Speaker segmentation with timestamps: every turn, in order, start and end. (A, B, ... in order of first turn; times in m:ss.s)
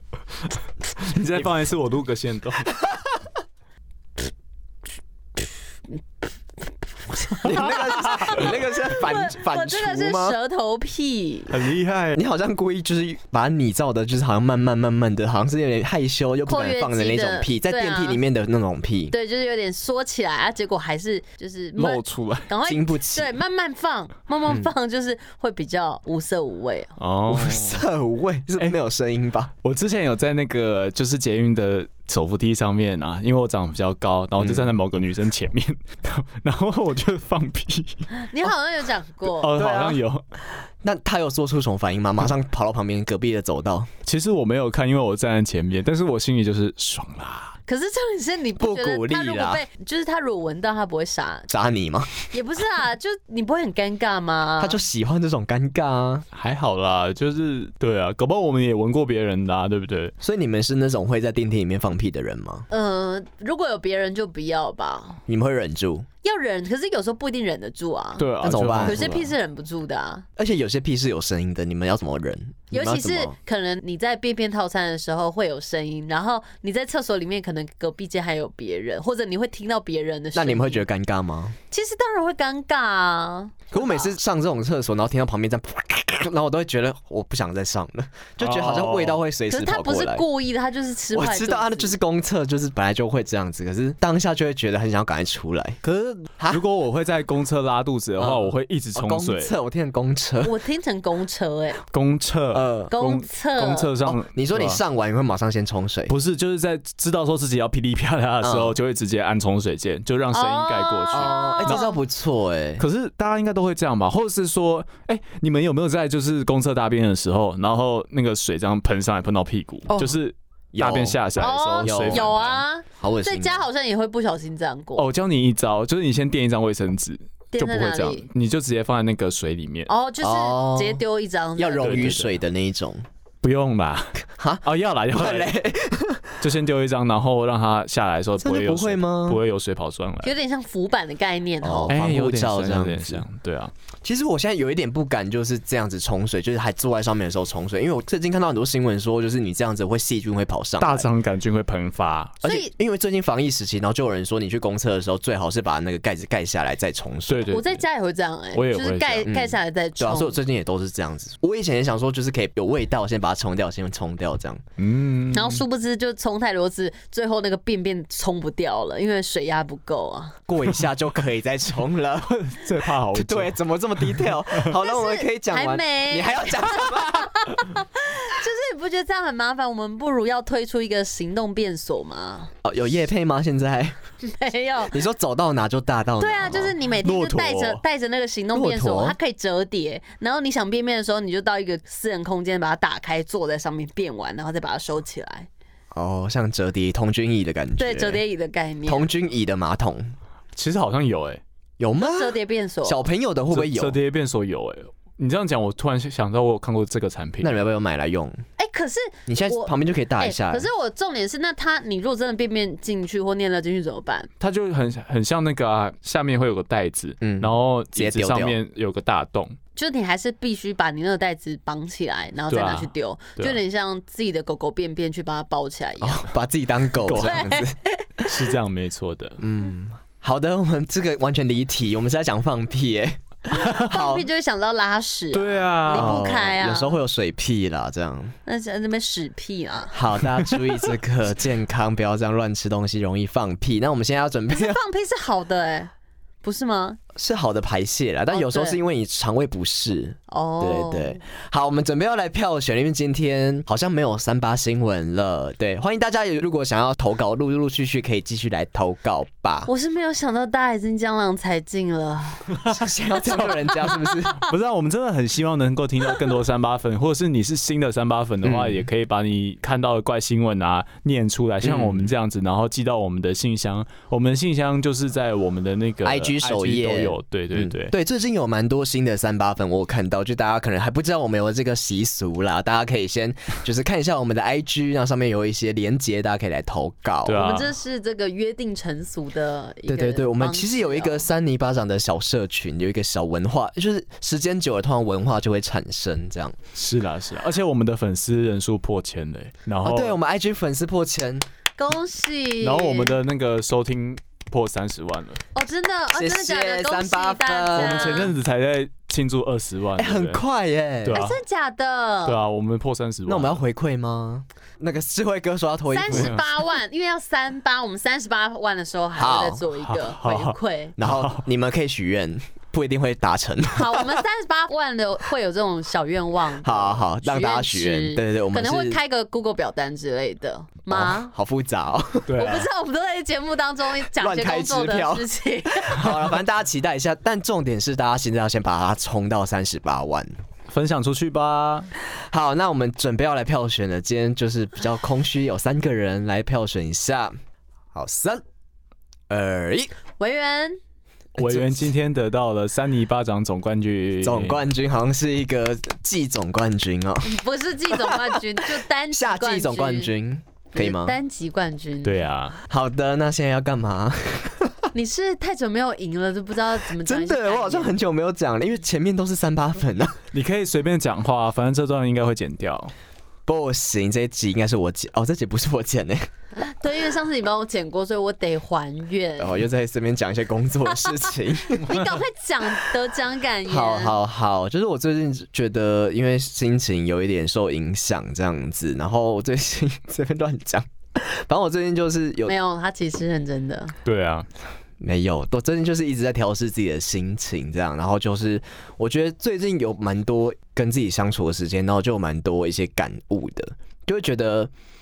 0:01.0-0:02.7 A
0:07.1-0:11.6 B
0:07.4-0:10.4 C
0:11.5-0:12.2 A
0:12.2-0:19.1 C
0:16.5-0:18.2 B
0:19.1-0:26.9 B
0:21.8-0:22.5 A
0:22.6-0:23.4 C
0:27.0-0:27.8 A
0:27.3-0:29.5 C
0:29.6-0:38.1 A
0:34.4-0:34.7 C
0:38.1-0:39.6 B
0:39.4-0:40.2 A
0:39.6-0:40.0 C
0:40.8-0:43.9 C
0:44.1-0:47.6 A
0:47.7-0:51.5 B
0:48.6-0:49.6 C
0:51.5-0:52.3 C
0:52.3-0:54.8 B
0:54.6-0:56.3 C
0:56.3-1:00.1 A
1:00.2-1:02.7 C
1:02.7-1:05.2 B
1:05.3-1:06.1 C
1:06.2-1:08.3 B
1:08.2-1:09.1 A
1:08.4-1:09.3 C
1:08.8-1:10.2 B
1:10.4-1:13.4 C
1:12.7-1:20.8 B
1:20.3-1:21.6 C
1:21.7-1:24.1 B
1:23.7-1:30.2 C
1:28.4-1:29.2 A
1:29.5-1:32.0 B
1:31.1-1:35.8 C
1:35.8-1:39.6 A
1:38.2-1:40.6 C
1:40.4-1:41.8 B
1:41.9-1:44.8 A
1:42.5-1:43.0 C
1:42.9-1:43.9 B
1:44.0-1:46.1 C
1:46.1-1:51.8 A
1:48.4-1:48.8 C
1:50.3-1:52.0 B
1:51.1-1:52.8 C
1:52.8-2:02.6 A
2:00.7-2:01.2 C
2:01.4-2:05.1 B
2:01.8-2:02.3 C
2:03.0-2:03.6 C
2:05.0-2:09.9 A
2:07.5-2:08.3 B
2:09.9-2:12.2 B
2:10.2-2:11.0 C
2:11.6-2:13.0 C
2:11.8-2:12.4 A
2:13.4-2:15.5 A
2:14.4-2:16.4 C
2:16.4-2:20.3 A
2:18.4-2:19.4 C
2:20.2-2:22.0 B
2:21.6-2:23.2 C
2:21.9-2:23.7 A
2:24.0-2:31.1 C
2:30.8-2:32.4 A
2:32.4-2:32.7 B
2:32.4-2:37.5 C
2:37.3-2:37.8 A
2:37.5-2:40.4 B
2:38.5-2:39.3 A
2:39.3-2:44.6 C
2:44.8-2:45.6 A
2:45.3-2:50.4 B
2:50.5-2:57.3 C
2:52.3-2:54.4 A
2:54.8-3:02.5 B
3:02.6-3:04.0 C
3:04.2-3:05.0 B
3:04.9-3:06.8 C
3:06.2-3:15.5 B
3:07.0-3:07.8 A
3:08.5-3:09.2 C
3:15.9-3:18.2 C
3:17.8-3:19.1 B
3:18.9-3:20.2 C
3:20.6-3:21.4 A
3:21.8-3:24.0 C
3:22.0-3:23.0 B
3:23.5-3:27.6 A
3:27.4-3:28.4 C
3:28.6-3:34.3 B
3:29.3-3:30.7 C
3:34.4-3:39.6 A
3:37.2-3:38.6 C
3:39.8-3:46.3 B
3:42.5-3:43.6 A
3:46.0-3:48.3 C
3:47.1-3:48.3 B
3:48.3-3:49.4 A
3:49.4-3:54.3 C
3:53.5-3:57.0 B
3:55.3-3:56.1 A
3:55.9-3:58.4 C
3:58.5-4:00.6 B
3:59.9-4:04.8 C
4:04.5-4:05.9 B
4:06.4-4:07.0 B
4:07.2-4:19.7 C
4:08.3-4:08.8 B
4:10.3-4:11.2 B
4:19.7-4:24.3 B
4:22.6-4:24.4 C
4:23.3-4:23.6 A
4:24.4-4:37.9 A
4:28.4-4:28.9 C
4:31.6-4:32.1 C
4:36.0-4:47.4 C
4:47.2-4:47.7 A
4:47.3-4:51.3 B
4:49.9-4:56.6 C
4:56.8-5:00.2 A
4:59.8-5:01.5 C
5:01.8-5:03.2 B
5:02.6-5:05.4 A
5:05.6-5:08.3 B
5:06.1-5:08.3 C
5:07.7-5:10.4 A
5:10.0-5:11.2 C
5:11.0-5:11.4 A
5:11.1-5:12.4 B
5:12.2-5:13.6 A
5:13.3-5:16.4 C
5:15.9-5:21.0 B
5:16.1-5:16.4 A
5:19.2-5:19.6 C
5:19.8-5:21.4 A
5:21.0-5:24.2 C
5:23.7-5:31.3 B
5:26.6-5:29.0 C
5:30.9-5:32.4 C
5:32.3-5:32.7 A
5:32.4-5:36.2 B
5:34.2-5:40.3 C
5:40.7-5:41.9 A
5:42.3-5:47.4 C
5:47.9-5:48.4 C
5:49.3-5:49.9 C
5:50.2-5:50.8 B
5:51.4-5:51.9 C
5:51.4-5:54.6 A
5:54.2-5:57.3 C
5:57.2-6:00.1 B
5:57.8-6:01.2 C
6:00.7-6:02.2 B
6:02.0-6:02.6 A
6:02.7-6:04.8 C
6:04.9-6:08.0 B
6:07.0-6:10.2 C
6:10.3-6:12.9 A
6:13.5-6:16.3 C
6:16.6-6:19.6 B
6:19.4-6:22.0 C
6:20.9-6:24.2 B
6:23.6-6:32.5 C
6:32.5-6:34.0 B
6:34.0-6:34.5 A
6:35.0-6:44.7 C